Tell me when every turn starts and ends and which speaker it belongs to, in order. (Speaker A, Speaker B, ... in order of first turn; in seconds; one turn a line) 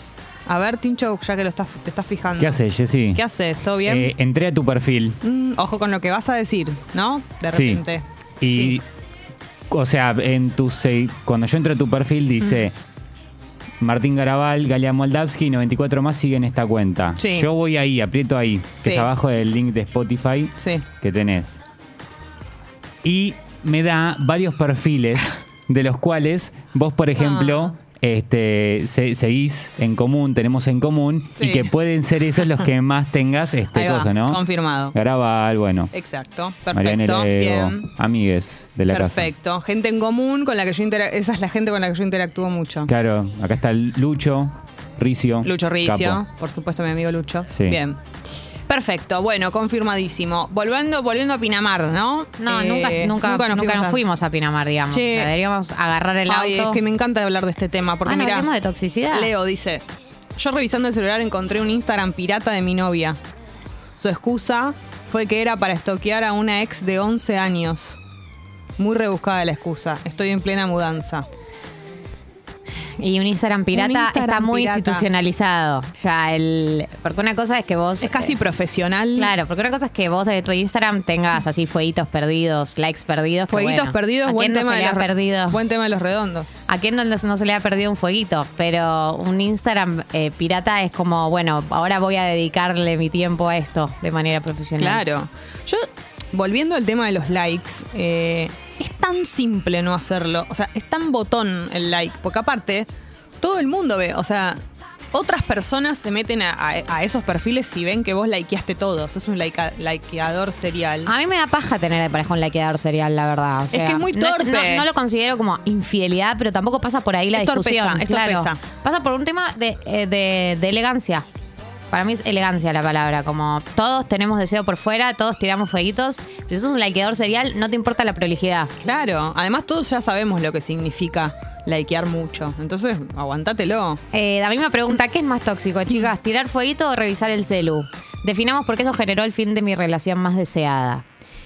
Speaker A: 0.5-2.6
Speaker B: 2.4-3.2
Speaker A: 3.1-4.1
Speaker B: 3.8-5.2
Speaker A: 5.2-8.8
Speaker B: 7.5-7.8
Speaker B: 8.4-8.8
Speaker B: 9.7-12.8
Speaker B: 13.8-21.6
Speaker A: 17.2-17.5
Speaker A: 18.8-19.1
Speaker A: 20.6-20.9
Speaker B: 23.0-34.4
Speaker A: 27.2-27.7
Speaker A: 31.4-31.7
Speaker A: 33.7-35.0
Speaker B: 34.9-35.9
Speaker A: 35.9-37.9
Speaker B: 36.7-39.3
Speaker A: 38.9-42.9
Speaker B: 42.9-46.2
Speaker A: 45.4-48.0
Speaker B: 47.5-47.8
Speaker A: 48.7-54.0
Speaker C: 52.4-56.8
Speaker A: 54.9-55.3
Speaker A: 56.3-58.5
Speaker C: 58.1-59.3
Speaker A: 59.1-59.9
Speaker A: 60.4-63.2
Speaker A: 64.0-68.0
Speaker A: 68.8-71.3
Speaker C: 73.0-78.4
Speaker A: 73.7-75.0
Speaker A: 78.0-79.3
Speaker C: 79.2-85.6
Speaker A: 83.5-86.5
Speaker C: 86.7-95.0
Speaker A: 94.8-102.9
Speaker A: 103.4-104.6
Speaker A: 105.1-111.1
Speaker C: 111.1-121.2
Speaker A: 113.7-114.9
Speaker A: 117.3-118.6
Speaker C: 121.9-128.7
Speaker A: 128.8-134.0
Speaker C: 134.1-141.0